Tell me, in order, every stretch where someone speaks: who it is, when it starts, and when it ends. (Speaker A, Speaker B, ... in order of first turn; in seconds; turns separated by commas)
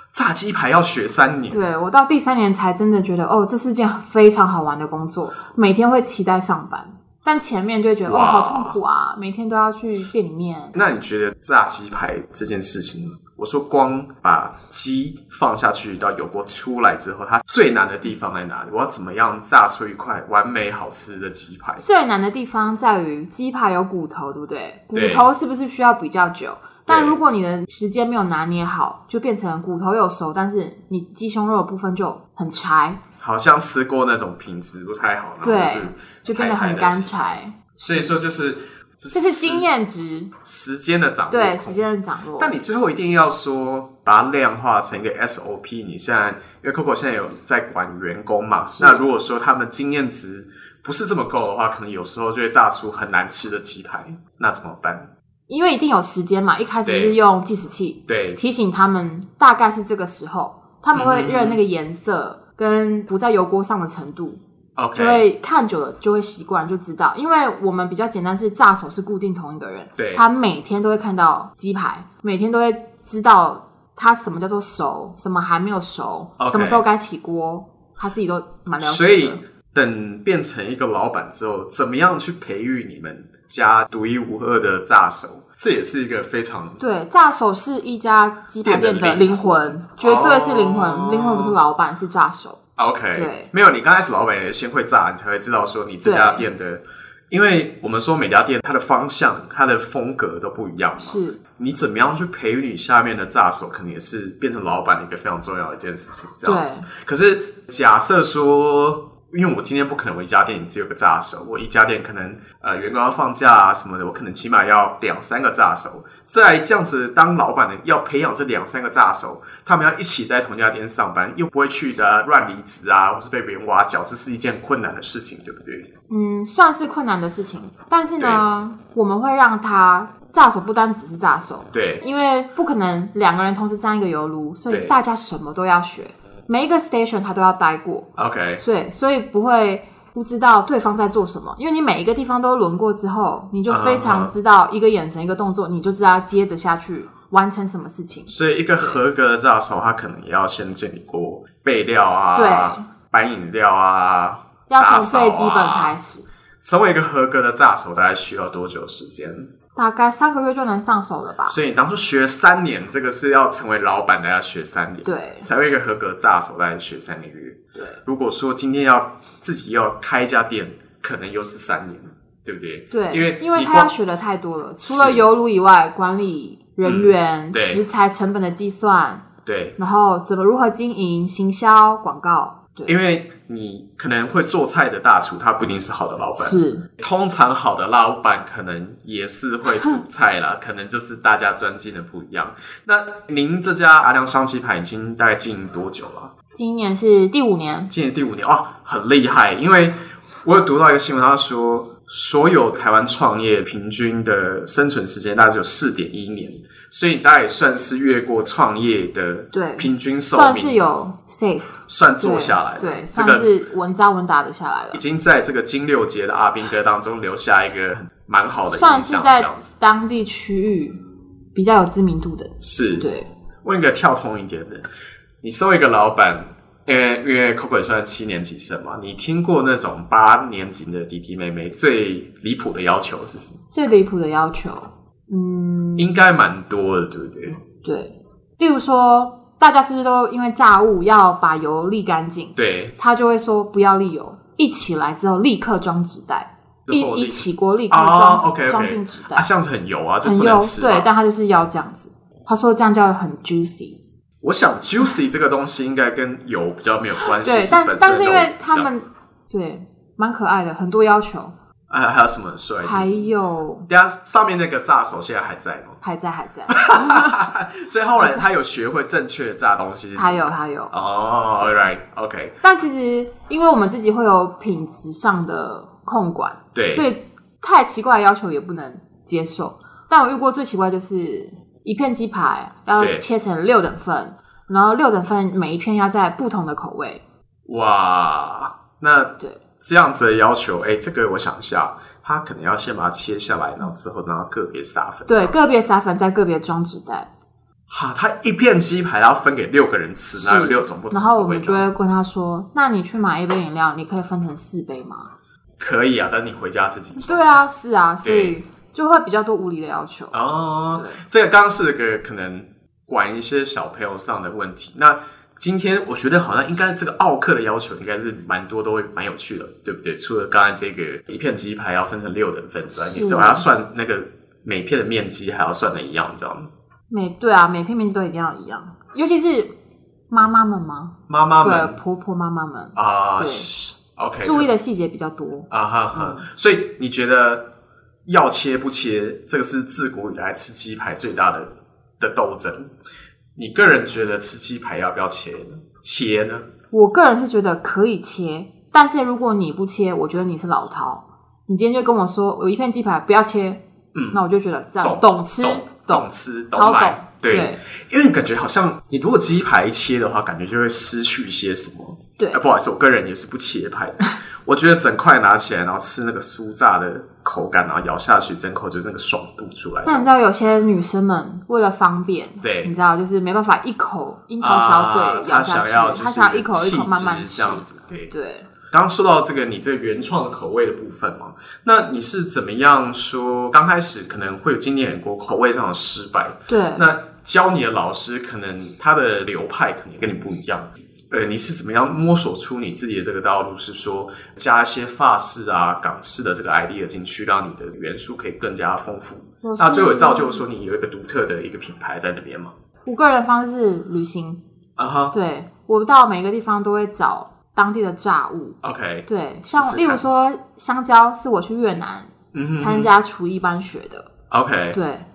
Speaker A: 0.1-1.6, Speaker B: 1.5-10.8, Speaker A: 8.1-8.8, Speaker A: 10.7-21.8, Speaker B: 21.8-33.0, Speaker A: 24.9-25.3, Speaker A: 26.9-27.2, Speaker A: 33.2-39.7, Speaker B: 35.4-38.2, Speaker B: 39.1-40.3, Speaker A: 40.4-41.9, Speaker B: 41.3-42.6, Speaker A: 42.4-55.1, Speaker B: 48.8-49.0, Speaker B: 55.5-64.4, Speaker A: 56.8-57.2, Speaker A: 58.1-58.4, Speaker A: 60.9-61.6, Speaker A: 64.8-65.3, Speaker B: 64.9-79.4, Speaker A: 70.0-70.3, Speaker A: 76.4-76.8, Speaker A: 78.8-86.8, Speaker B: 86.8-92.6, Speaker A: 88.6-91.6, Speaker A: 92.8-125.9, Speaker B: 93.2-93.5, Speaker B: 96.0-96.5, Speaker B: 101.0-101.4, Speaker B: 106.5-106.9, Speaker B: 126.1-149.0, Speaker A: 131.7-132.1, Speaker A: 134.7-135.0, Speaker A: 138.2-138.6, Speaker A: 143.7-144.3, Speaker A: 148.3-155.9, Speaker B: 152.3-152.9, Speaker B: 154.7-156.3, Speaker A: 156.6-159.5, Speaker B: 159.8-161.6, Speaker A: 161.5-173.9, Speaker B: 165.1-165.5, Speaker B: 172.9-179.3, Speaker A: 174.8-175.2, Speaker A: 176.8-177.8, Speaker A: 179.4-179.8, Speaker B: 179.8-182.9, Speaker A: 182.9-196.3, Speaker B: 186.4-186.9, Speaker B: 196.5-197.9, Speaker A: 197.9-210.8, Speaker B: 209.5-215.0, Speaker A: 211.9-213.5, Speaker A: 214.9-219.7, Speaker B: 218.7-221.0, Speaker B: 221.6-223.3, Speaker A: 222.6-223.1, Speaker A: 223.6-224.9, Speaker A: 225.4-233.6, Speaker B: 233.7-236.1, Speaker A: 236.0-237.6, Speaker B: 237.8-249.5, Speaker A: 242.6-242.9, Speaker A: 246.9-251.1, Speaker B: 250.2-254.0, Speaker A: 254.4-258.9, Speaker B: 257.2-261.5, Speaker A: 261.9-263.3, Speaker B: 262.8-263.9, Speaker A: 263.9-266.0, Speaker B: 266.0-267.4, Speaker A: 266.7-272.6, Speaker B: 268.2-268.4, Speaker B: 270.2-270.9, Speaker B: 272.6-287.2, Speaker A: 276.8-277.1, Speaker A: 283.0-283.2, Speaker A: 287.7-295.6, Speaker B: 295.3-297.3, Speaker A: 297.9-301.9, Speaker B: 300.3-305.3, Speaker A: 305.8-307.5, Speaker B: 307.2-310.4, Speaker A: 308.2-308.6, Speaker A: 310.3-326.7, Speaker B: 310.9-311.2, Speaker B: 323.0-323.6, Speaker B: 327.1-329.7, Speaker B: 330.3-333.7, Speaker A: 331.3-332.0, Speaker A: 332.9-334.7, Speaker B: 334.4-336.4, Speaker A: 335.7-337.7, Speaker A: 338.3-342.9, Speaker A: 343.6-346.7, Speaker B: 346.9-357.8, Speaker A: 354.1-354.4, Speaker A: 355.0-370.3, Speaker B: 370.1-378.7, Speaker A: 372.6-372.9, Speaker A: 374.6-378.3, Speaker A: 378.9-402.7, Speaker B: 386.7-387.1, Speaker B: 399.6-400.6, Speaker B: 403.1-404.6, Speaker A: 405.0-405.4, Speaker B: 405.3-414.3, Speaker A: 408.8-410.2, Speaker A: 412.5-413.1, Speaker A: 414.5-415.0, Speaker B: 414.9-415.3